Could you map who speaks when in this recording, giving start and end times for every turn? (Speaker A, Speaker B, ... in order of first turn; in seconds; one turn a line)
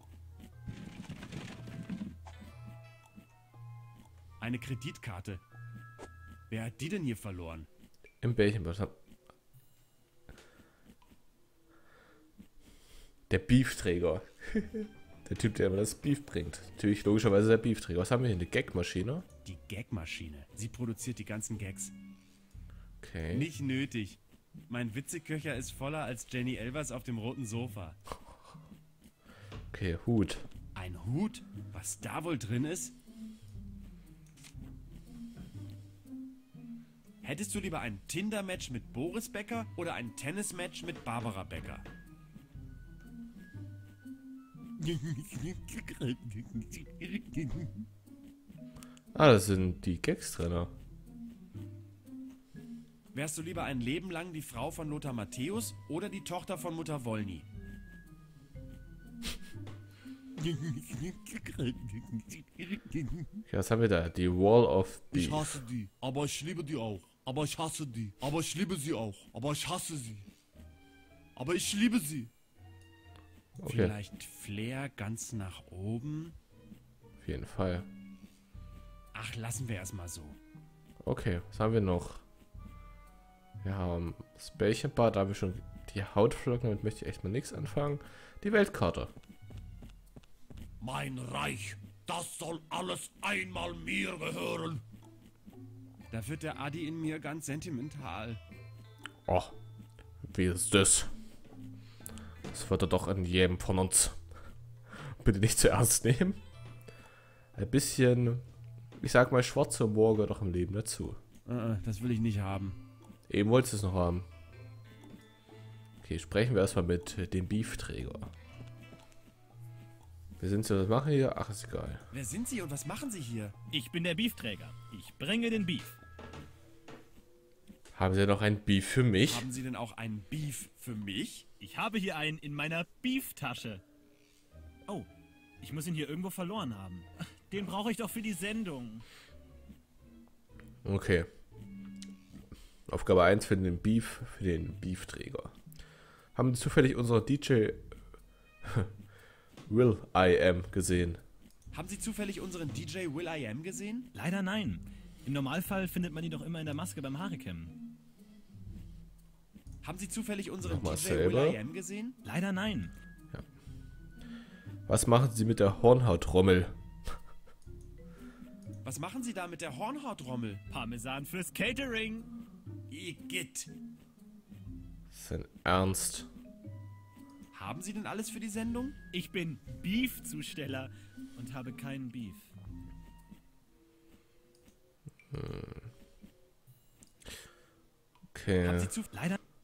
Speaker A: 4.4-5.4
Speaker A: 6.5-7.7
Speaker B: 8.2-8.9
Speaker B: 13.3-19.2
Speaker A: 19.4-21.9
Speaker B: 23.0-23.5
Speaker A: 23.3-28.0
Speaker B: 29.7-30.5
Speaker A: 30.8-33.0
Speaker A: 37.2-41.9
Speaker A: 44.8-47.8
Speaker B: 49.1-50.7
Speaker A: 53.1-57.5
Speaker A: 60.6-63.1
Speaker B: 63.5-65.7
Speaker C: 65.1-70.2
Speaker C: 71.4-72.3
Speaker B: 73.6-73.9
Speaker A: 73.6-76.4
Speaker B: 77.2-77.9
Speaker A: 79.1-80.4
Speaker B: 81.0-82.2
Speaker B: 83.6-89.1
Speaker A: 90.8-93.8
Speaker C: 92.1-92.5
Speaker C: 93.2-94.6
Speaker A: 96.1-98.4
Speaker B: 99.3-99.6
Speaker B: 100.2-101.1
Speaker B: 102.5-104.2
Speaker B: 105.0-106.4
Speaker B: 107.5-108.5
Speaker B: 109.0-111.2
Speaker A: 111.5-112.8
Speaker B: 113.3-114.3
Speaker B: 116.0-118.3
Speaker B: 120.4-122.0
Speaker A: 122.1-123.5
Speaker D: 123.8-125.8
Speaker B: 127.9-129.5
Speaker A: 129.2-131.5
Speaker D: 131.7-133.8
Speaker D: 135.7-139.0
Speaker B: 140.8-141.3
Speaker B: 142.9-145.5
Speaker B: 146.3-148.0
Speaker B: 148.6-148.9
Speaker B: 149.7-151.2
Speaker A: 151.7-154.1
Speaker D: 154.2-157.7
Speaker A: 159.8-162.2
Speaker B: 160.6-161.6
Speaker D: 162.3-162.9
Speaker B: 164.9-166.7
Speaker A: 168.8-170.6
Speaker D: 170.7-171.6
Speaker A: 172.9-173.7
Speaker B: 175.1-176.3
Speaker A: 177.5-179.0
Speaker D: 179.1-180.9
Speaker D: 181.4-182.4
Speaker B: 185.3-185.9
Speaker B: 188.3-188.9
Speaker A: 188.6-189.1